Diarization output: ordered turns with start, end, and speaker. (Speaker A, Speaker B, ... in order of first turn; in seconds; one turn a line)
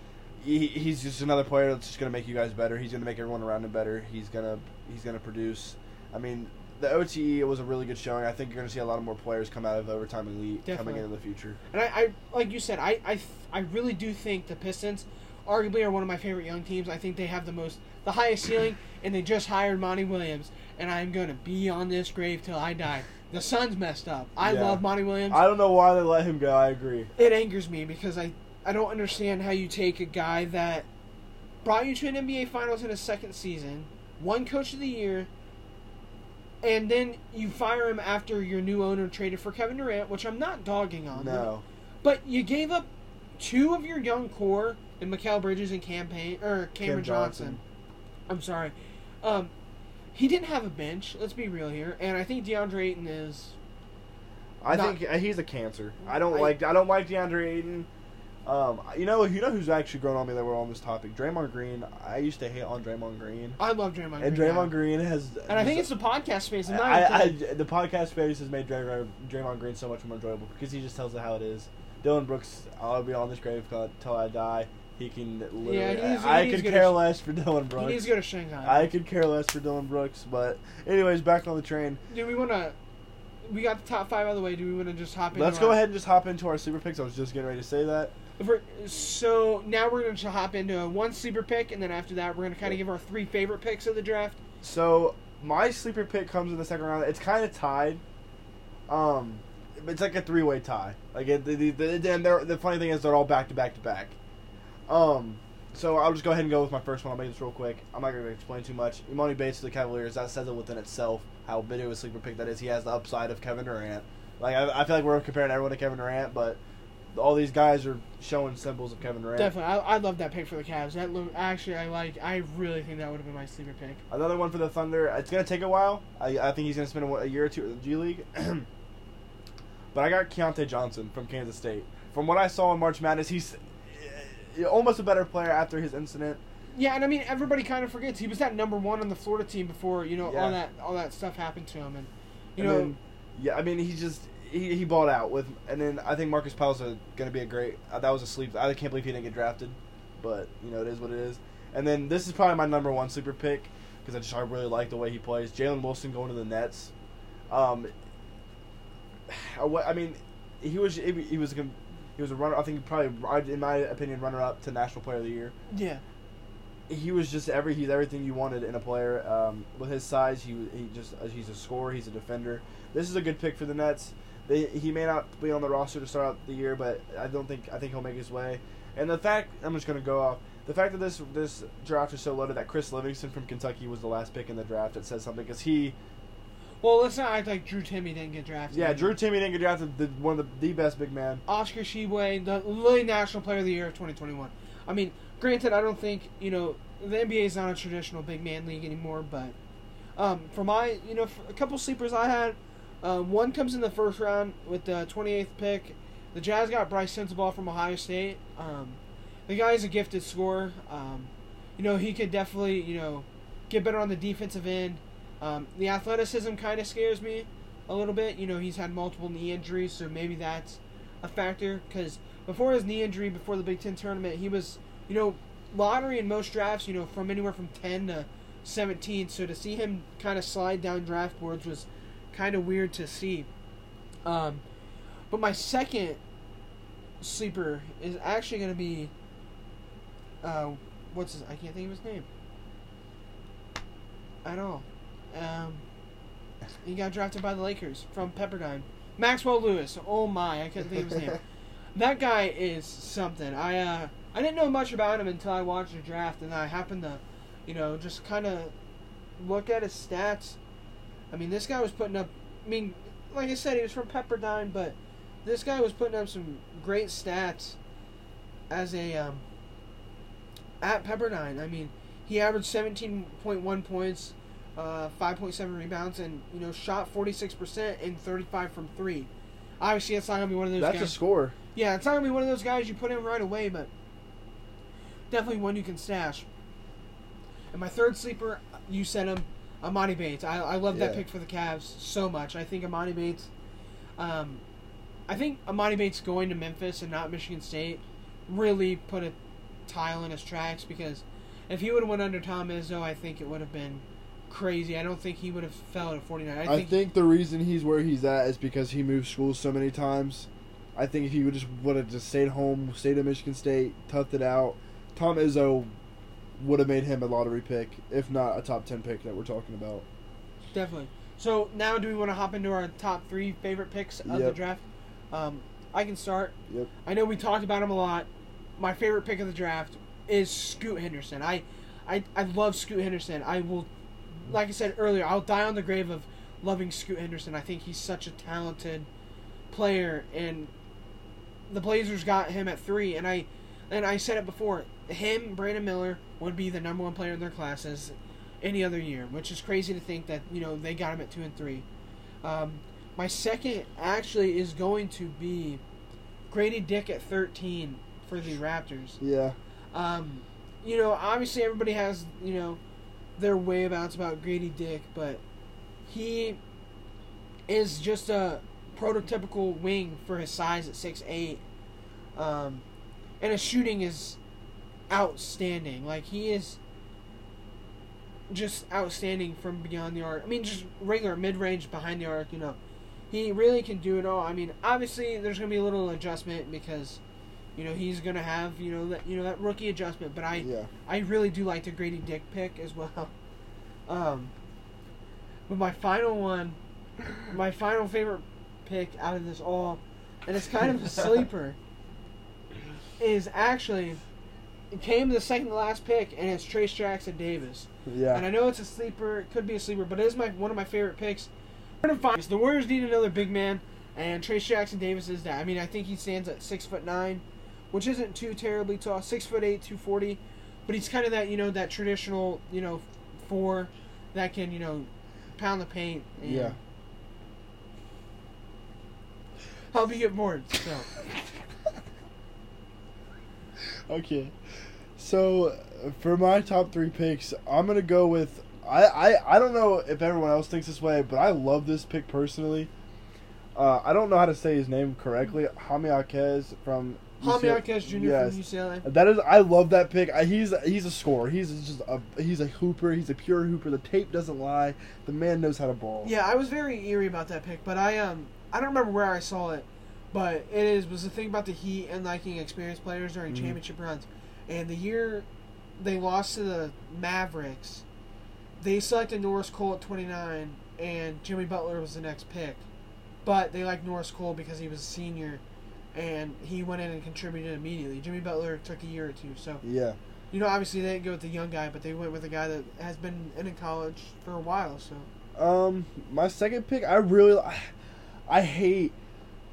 Speaker A: 0.4-11.6
Speaker B: 10.6-11.0
Speaker B: 11.7-25.4
Speaker A: 24.4-27.1
Speaker B: 27.1-30.9
Speaker B: 31.6-35.3
Speaker B: 36.6-41.5
Speaker A: 41.1-41.6
Speaker B: 42.0-47.6
Speaker A: 46.8-47.6
Speaker B: 48.3-49.5
Speaker B: 50.1-53.5
Speaker A: 54.6-57.9
Speaker B: 54.7-55.0
Speaker B: 56.1-56.5
Speaker A: 58.5-63.6
Speaker B: 63.6-64.7
Speaker A: 64.2-65.9
Speaker B: 65.5-67.4
Speaker A: 66.7-78.1
Speaker B: 75.6-77.0
Speaker B: 77.8-78.9
Speaker A: 78.6-82.0
Speaker B: 82.1-82.7
Speaker B: 83.5-85.8
Speaker A: 85.3-88.1
Speaker B: 88.4-94.4
Speaker A: 94.6-98.0
Speaker A: 98.9-104.1
Speaker A: 104.9-116.6
Speaker A: 117.1-119.5
Speaker B: 119.3-124.0
Speaker A: 124.1-128.7
Speaker A: 129.9-136.4
Speaker B: 136.7-142.9
Speaker A: 140.2-140.6
Speaker A: 142.6-156.9
Speaker A: 157.5-157.9
Speaker A: 159.3-165.5
Speaker B: 165.7-166.0
Speaker A: 166.9-185.9
Speaker B: 186.8-189.1
Speaker A: 188.7-191.4
Speaker B: 191.5-199.5
Speaker B: 200.2-233.5
Speaker B: 234.2-234.6
Speaker B: 235.3-236.2
Speaker B: 237.2-239.1
Speaker B: 240.4-242.3
Speaker B: 244.4-245.8
Speaker B: 246.8-251.4
Speaker B: 251.9-258.7
Speaker B: 259.4-260.6
Speaker B: 261.3-267.8
Speaker B: 268.7-269.4
Speaker B: 270.8-279.3
Speaker B: 279.8-281.1
Speaker A: 280.8-281.5
Speaker B: 281.7-283.9
Speaker B: 285.3-286.4
Speaker B: 287.7-293.5
Speaker A: 290.9-291.2
Speaker B: 294.2-294.6
Speaker B: 295.3-299.3
Speaker B: 299.9-307.0
Speaker A: 306.6-315.9
Speaker A: 316.6-320.0
Speaker B: 320.7-328.3
Speaker A: 324.3-324.6
Speaker B: 328.8-333.9
Speaker B: 334.4-339.1
Speaker B: 339.7-340.7
Speaker B: 341.7-351.8
Speaker B: 352.4-355.8
Speaker B: 356.5-359.2
Speaker A: 359.2-359.6
Speaker B: 359.9-362.8
Speaker B: 363.4-365.4
Speaker B: 366.1-366.6
Speaker B: 367.7-371.6
Speaker B: 372.3-372.8
Speaker B: 373.4-374.4
Speaker B: 375.1-376.8
Speaker B: 378.5-382.8
Speaker B: 383.3-387.2
Speaker B: 387.8-393.3
Speaker A: 390.6-390.9
Speaker B: 394.1-394.5
Speaker B: 395.7-396.8
Speaker B: 397.4-401.8
Speaker B: 403.2-404.2
Speaker B: 404.9-411.5
Speaker A: 408.1-408.4
Speaker B: 412.0-426.8
Speaker A: 426.4-426.8
Speaker B: 429.9-431.1
Speaker A: 433.8-434.5
Speaker A: 435.2-442.9
Speaker A: 443.7-456.3
Speaker B: 447.4-449.0
Speaker B: 456.2-465.4
Speaker A: 463.5-463.8
Speaker B: 466.0-468.0
Speaker B: 468.8-472.8
Speaker B: 473.4-475.6
Speaker B: 476.1-479.8
Speaker A: 479.8-480.2
Speaker B: 480.5-485.3
Speaker A: 485.6-487.9
Speaker A: 488.5-489.1